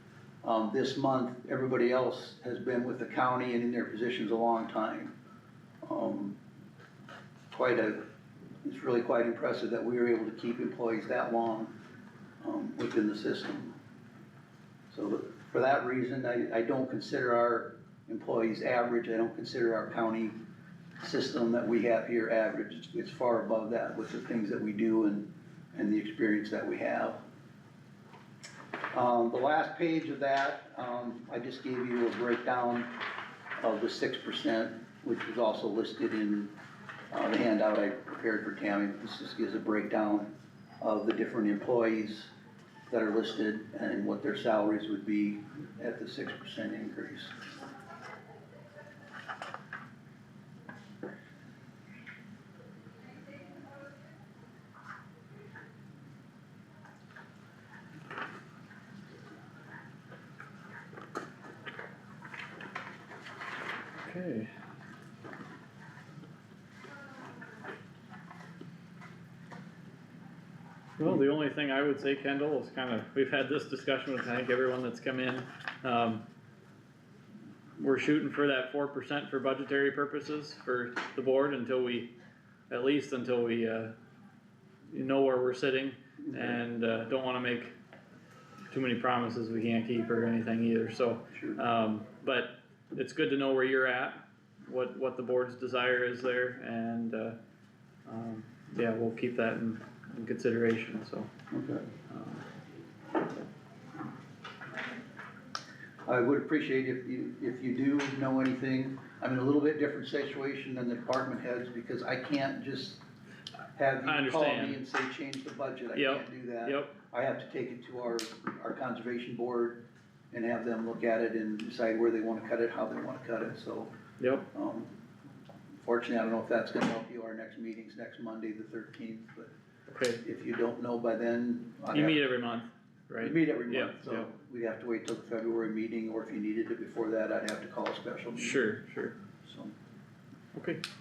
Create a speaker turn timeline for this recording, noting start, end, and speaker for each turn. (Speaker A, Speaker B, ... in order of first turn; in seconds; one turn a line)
Speaker A: 0.4-5.1
Speaker A: 5.8-6.4
Speaker A: 7.5-8.0
Speaker A: 8.6-11.8
Speaker A: 12.4-13.8
Speaker A: 14.9-20.4
Speaker A: 21.0-27.2
Speaker A: 28.9-32.9
Speaker A: 33.6-36.5
Speaker A: 37.1-40.3
Speaker A: 40.8-42.3
Speaker A: 42.9-47.3
Speaker B: 64.0-64.5
Speaker B: 71.0-76.2
Speaker B: 77.8-82.1
Speaker B: 82.7-83.9
Speaker B: 84.9-87.7
Speaker A: 86.2-86.6
Speaker B: 88.7-97.4
Speaker A: 91.3-91.6
Speaker B: 98.1-101.3
Speaker A: 101.5-101.9
Speaker B: 102.1-102.4
Speaker A: 106.1-113.0
Speaker A: 113.8-119.8
Speaker B: 114.0-114.8
Speaker B: 115.9-117.0
Speaker A: 120.3-123.9
Speaker B: 124.2-124.5
Speaker A: 124.5-125.0
Speaker A: 125.8-129.5
Speaker B: 129.9-130.2
Speaker A: 130.2-132.2
Speaker B: 131.9-134.3
Speaker A: 133.2-138.7
Speaker B: 138.4-139.2
Speaker A: 139.4-139.7
Speaker B: 140.5-140.8